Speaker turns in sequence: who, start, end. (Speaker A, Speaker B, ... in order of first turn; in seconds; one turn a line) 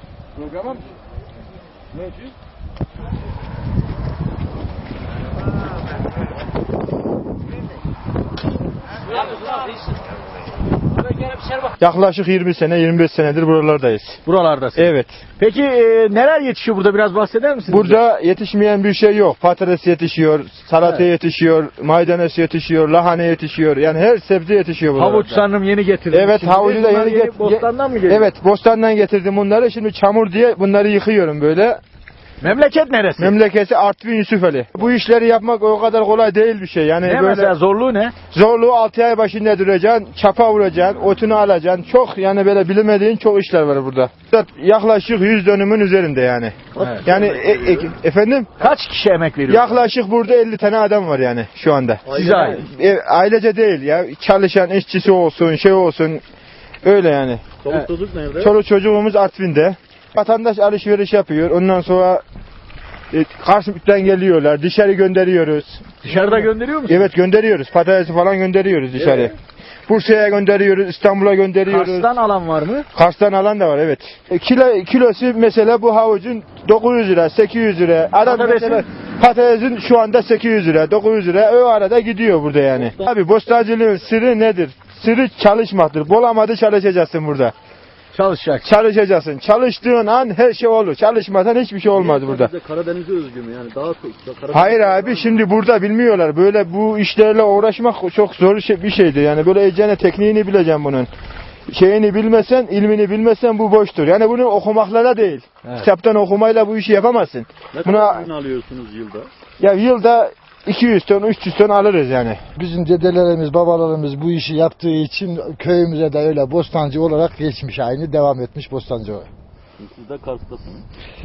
Speaker A: 11.8-14.2
Speaker B: 14.3-14.8
Speaker A: 14.7-15.2
Speaker B: 15.4-18.0
Speaker A: 17.7-25.4
Speaker B: 24.9-28.3
Speaker A: 26.1-31.8
Speaker B: 32.4-33.4
Speaker A: 33.2-37.5
Speaker B: 37.0-38.1
Speaker A: 38.3-48.5
Speaker C: 46.7-47.9
Speaker B: 46.8-47.0
Speaker B: 48.6-49.8
Speaker A: 49.5-56.2
Speaker C: 52.0-52.6
Speaker B: 52.1-52.6
Speaker A: 56.8-57.5
Speaker C: 57.6-58.5
Speaker A: 58.4-62.2
Speaker A: 63.1-69.4
Speaker B: 66.0-67.1
Speaker A: 69.9-72.1
Speaker B: 71.7-72.9
Speaker A: 72.9-87.5
Speaker B: 78.3-78.8
Speaker C: 82.7-83.1
Speaker B: 88.1-88.7
Speaker A: 88.6-92.5
Speaker C: 91.9-95.4
Speaker A: 94.5-101.1
Speaker A: 101.7-108.2
Speaker C: 107.7-109.3
Speaker A: 109.6-112.4
Speaker D: 112.5-119.3
Speaker C: 119.8-120.8